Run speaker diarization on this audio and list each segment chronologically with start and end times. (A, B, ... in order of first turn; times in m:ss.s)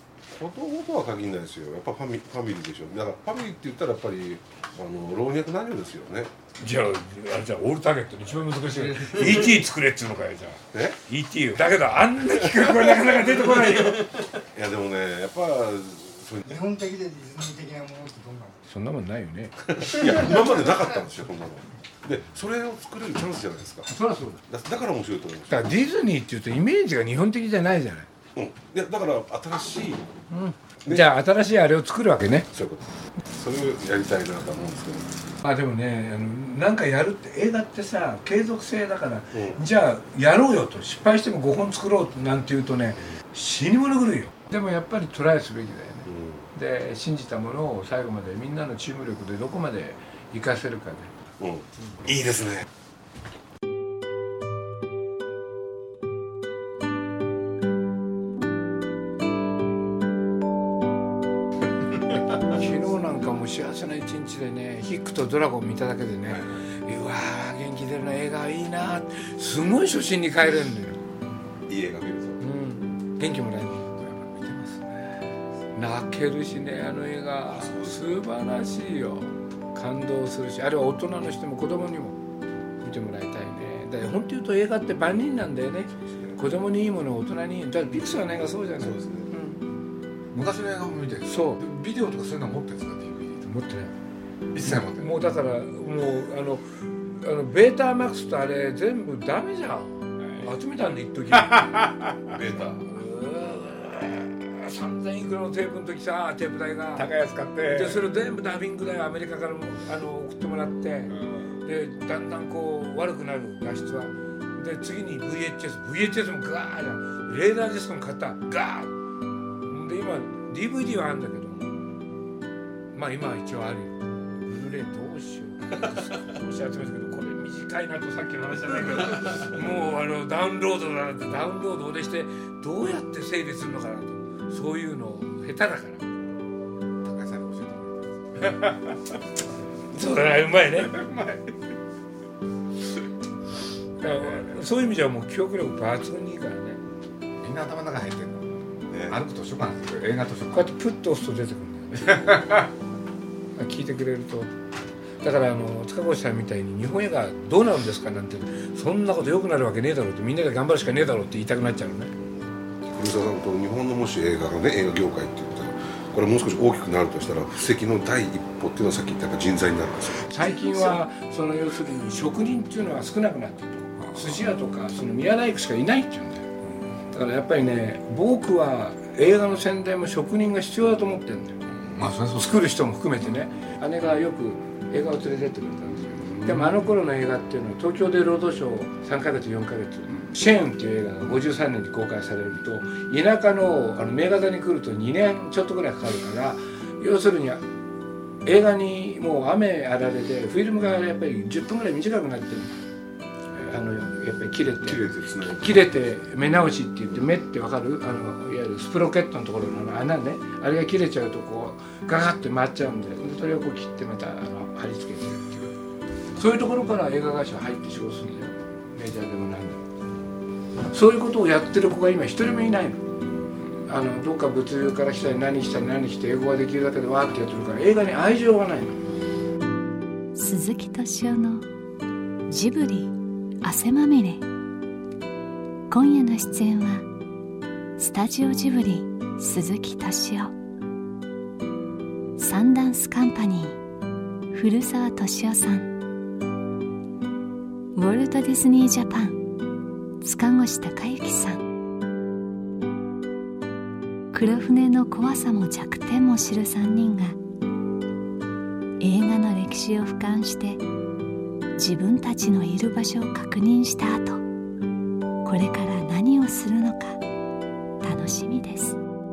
0:00.3-0:06.3 A
0:06.6-0:14.2 B
0:10.7-0:11.0 A
0:14.5-0:16.5 A
0:16.4-0:18.6 C
0:18.6-0:19.7 B
0:19.6-0:23.9 A
0:20.1-0:20.4 C
0:23.9-0:24.4 B
0:24.5-0:25.7 A
0:25.5-0:28.1 B
0:28.3-0:30.1 A
0:30.3-0:32.5 B
0:32.5-0:35.2 A
0:35.4-0:51.1 B
0:39.3-0:39.6 A
0:46.0-0:46.4 A
0:51.4-0:52.7 A
1:02.5-1:11.0 B
1:06.3-1:06.7 A
1:11.7-1:12.4 A
1:12.4-1:13.9 B
1:14.0-1:15.2 D
1:15.7-1:22.2 B
1:17.5-1:18.0 A
1:22.8-1:29.6 B
1:26.0-1:26.4 A
1:28.8-1:29.3 A
1:30.3-1:33.5 D
1:31.2-1:31.6 B
1:33.4-1:33.9 B
1:34.5-1:35.2 D
1:34.6-1:41.9 B
1:42.3-1:42.9 A
1:42.8-1:59.0 B
1:47.0-1:48.0 D
1:59.6-2:01.8 B
2:02.9-2:16.2 B
2:17.0-2:19.0 D
2:19.9-2:21.1 B
2:20.9-2:21.4 D
2:24.0-2:26.8 B
2:27.4-2:30.7 D
2:28.9-2:29.2 A
2:30.5-2:32.7 B
2:32.1-2:32.7 D
2:33.6-2:34.5 B
2:35.2-2:42.1 B
2:42.8-2:50.3 A
2:50.3-2:56.5 B
2:54.0-2:54.4 D
2:57.1-3:01.6 B
3:01.7-3:02.7 D
3:02.4-3:17.7 B
3:06.1-3:06.7 D
3:18.4-3:22.7 B
3:23.5-3:35.7 B
3:24.8-3:25.9 A
3:36.3-3:39.8 B
3:40.9-3:43.1 B
3:43.9-3:49.0 B
3:50.3-3:51.6 E
3:52.5-3:54.4 E
3:55.9-3:57.0 E
3:58.0-4:00.5 E
4:02.4-4:03.8 E
4:04.5-4:05.9 E
4:07.9-4:09.4 E
4:10.2-4:11.6 E
4:14.3-4:17.4 E
4:19.0-4:20.8 E
4:21.8-4:24.4 E
4:25.4-4:27.2 E
4:28.0-4:29.0 E